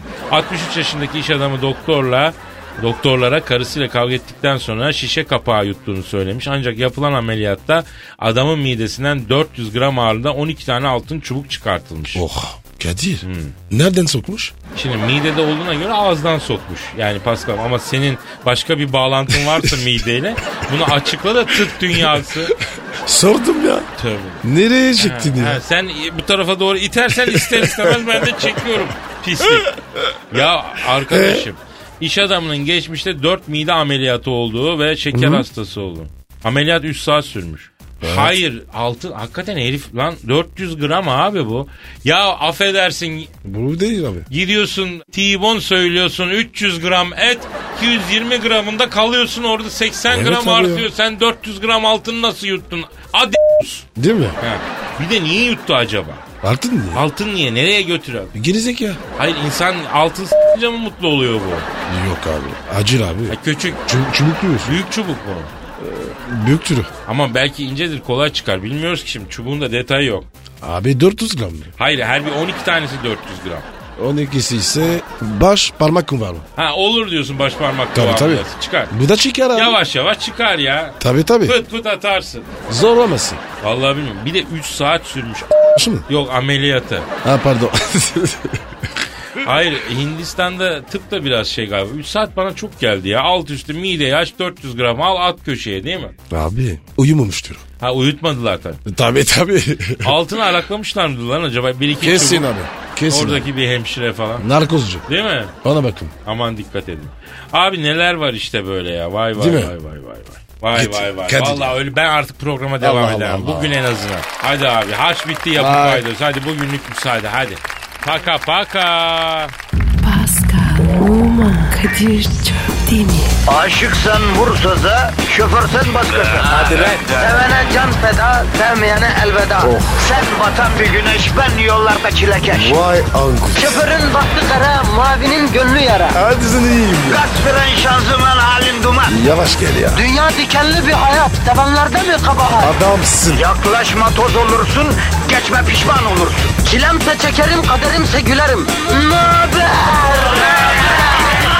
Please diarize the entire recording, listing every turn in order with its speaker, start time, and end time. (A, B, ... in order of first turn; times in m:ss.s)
0:00.3-0:12.2 A
0:12.1-0:14.5 B
0:13.2-0:13.5 A
0:14.7-0:22.5 A
0:21.9-0:22.2 B
0:22.9-0:23.9 B
0:24.0-0:24.4 A
0:24.4-0:25.6 B
0:25.0-0:29.7 A
0:27.2-0:28.5 B
0:30.3-0:43.3 A
0:31.1-0:31.4 B
0:35.1-0:35.4 B
0:38.0-0:38.4 B
0:43.4-0:44.3 B
0:44.3-0:53.9 A
0:50.1-0:50.9 B
0:54.0-0:54.4 B
0:54.4-0:56.2 A
0:56.4-0:57.0 B
0:56.9-0:58.3 A
0:58.3-0:59.0 B
0:59.2-1:01.7 A
1:01.9-1:04.8 B
1:03.3-1:03.8 A
1:04.6-1:05.5 A
1:05.8-1:06.9 B
1:07.1-1:10.3 A
1:10.6-1:11.7 B
1:11.8-1:13.7 A
1:14.0-1:16.4 B
1:16.6-1:18.9 A
1:17.9-1:19.8 B
1:19.5-1:22.5 A
1:21.0-1:21.6 B
1:22.7-1:23.4 B
1:23.6-1:27.1 A
1:25.7-1:26.0 B
1:27.2-1:28.6 B
1:29.4-1:36.1 A
1:36.3-1:37.6 B
1:37.8-1:38.8 A
1:38.8-1:40.2 B
1:40.0-1:42.5 A
1:42.0-1:43.5 B
1:43.1-1:44.4 A
1:44.4-1:45.0 B
1:45.1-1:45.5 A
1:45.6-1:46.1 B
1:46.2-1:59.5 A
1:49.4-1:49.7 B
1:50.7-1:51.8 B
1:52.8-1:53.7 B
1:55.6-1:56.0 B
2:00.0-2:03.4 C
2:03.5-2:12.8 D
2:06.6-2:07.0 A
2:09.6-2:09.9 B
2:12.5-2:13.9 B
2:13.5-2:16.2 D
2:16.1-2:17.2 B
2:17.0-2:19.2 D
2:19.1-2:20.0 B
2:19.9-2:22.7 D
2:22.6-2:23.4 B
2:23.3-2:31.2 D